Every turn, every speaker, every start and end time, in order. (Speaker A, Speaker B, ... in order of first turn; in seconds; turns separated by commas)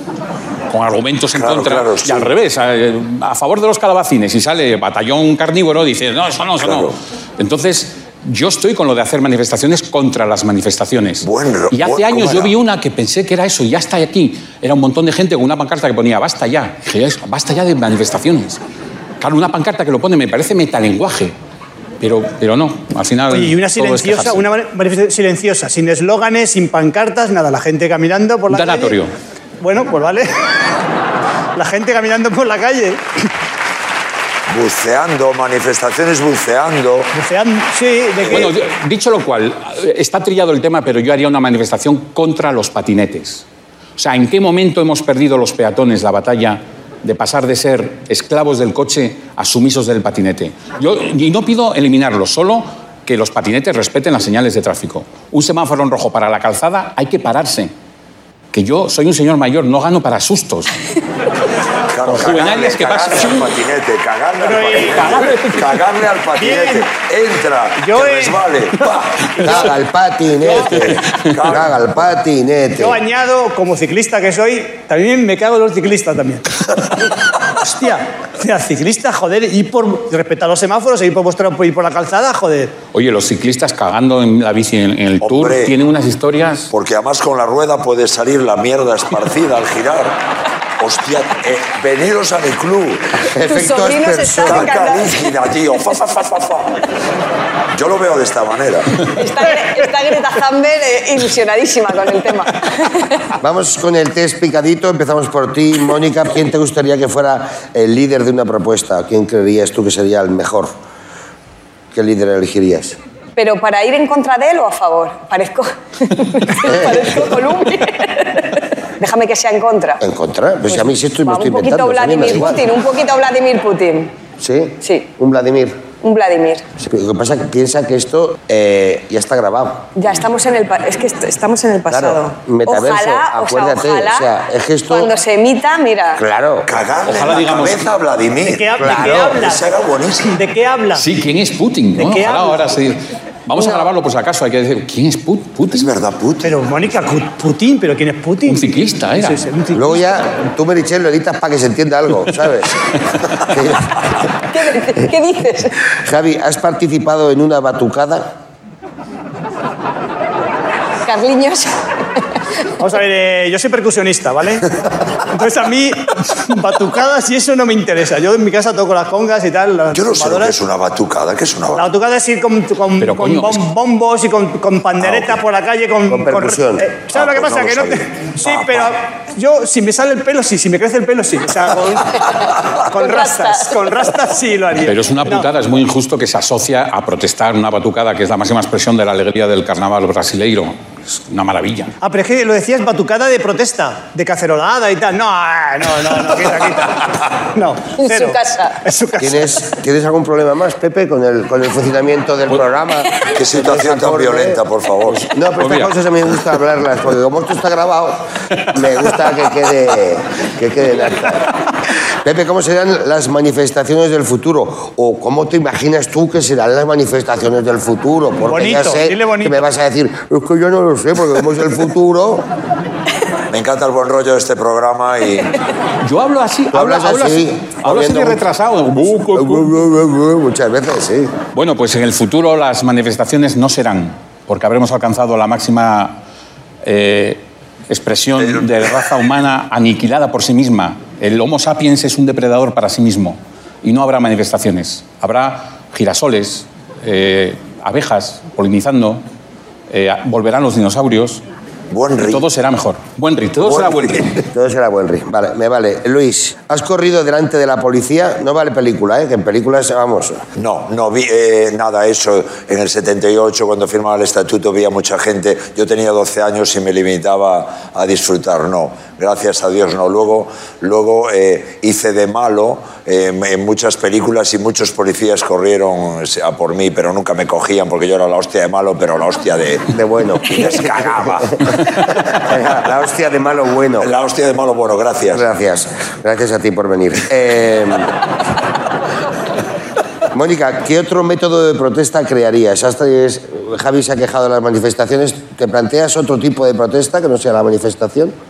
Speaker A: 0.7-18.6, Speaker B: 1.3-2.3, Speaker B: 6.6-6.9, Speaker B: 11.2-12.5, Speaker A: 19.2-21.3, Speaker A: 22.0-24.5, Speaker C: 23.3-29.0, Speaker A: 28.5-29.1, Speaker C: 29.6-30.3, Speaker C: 31.5-33.3, Speaker B: 34.5-37.1, Speaker C: 37.1-38.5, Speaker B: 38.2-38.5, Speaker A: 38.2-43.4, Speaker A: 44.0-57.7, Speaker A: 58.5-60.8, Speaker B: 61.9-69.7, Speaker A: 62.0-63.5, Speaker C: 64.4-65.8, Speaker C: 66.3-66.9, Speaker C: 67.8-68.5, Speaker D: 69.4-73.0, Speaker B: 70.4-72.1, Speaker C: 72.8-82.7, Speaker A: 82.9-86.7, Speaker B: 85.2-85.7, Speaker B: 86.7-90.2, Speaker B: 90.8-93.2, Speaker D: 93.3-94.7, Speaker E: 93.4-95.2, Speaker B: 94.5-96.8, Speaker B: 97.7-99.1, Speaker E: 99.0-103.3, Speaker D: 103.4-110.7, Speaker D: 111.9-113.0, Speaker E: 113.4-120.0, Speaker D: 116.6-117.2, Speaker D: 120.0-122.6, Speaker E: 120.7-124.1, Speaker D: 124.4-125.8, Speaker E: 124.8-125.1, Speaker E: 126.0-126.7, Speaker D: 126.8-129.9, Speaker E: 129.9-134.3, Speaker D: 131.9-135.1, Speaker E: 134.9-136.2, Speaker D: 136.2-136.7, Speaker B: 136.7-140.4, Speaker A: 137.1-137.9, Speaker C: 138.4-141.1, Speaker D: 138.8-139.3, Speaker A: 140.9-145.9, Speaker C: 142.0-142.7, Speaker B: 145.7-146.5, Speaker C: 146.4-150.0, Speaker A: 148.4-149.4, Speaker D: 149.7-152.7, Speaker D: 153.4-154.0, Speaker E: 154.5-155.8, Speaker D: 156.0-158.3, Speaker E: 161.0-162.2, Speaker C: 162.8-170.6, Speaker B: 169.9-171.9, Speaker C: 171.7-185.5, Speaker A: 173.0-173.7, Speaker B: 175.0-175.3, Speaker D: 176.1-176.8, Speaker B: 177.1-178.9, Speaker E: 182.9-184.0, Speaker A: 184.8-191.9, Speaker C: 192.0-199.6, Speaker E: 198.0-198.7, Speaker D: 199.2-204.6, Speaker B: 203.2-205.3, Speaker A: 205.1-206.0, Speaker D: 205.3-211.5, Speaker D: 212.2-222.4, Speaker C: 218.5-219.7, Speaker B: 223.5-225.6, Speaker A: 226.0-229.8, Speaker D: 226.7-228.4, Speaker D: 229.3-231.3, Speaker A: 231.5-236.2, Speaker A: 236.8-249.2, Speaker B: 238.4-238.9, Speaker A: 249.9-251.4, Speaker B: 251.9-252.4, Speaker A: 252.2-254.3, Speaker B: 253.6-254.5, Speaker D: 254.5-260.4, Speaker B: 260.6-282.4, Speaker D: 279.9-284.1, Speaker B: 284.0-285.5, Speaker D: 285.3-288.1, Speaker D: 290.3-298.3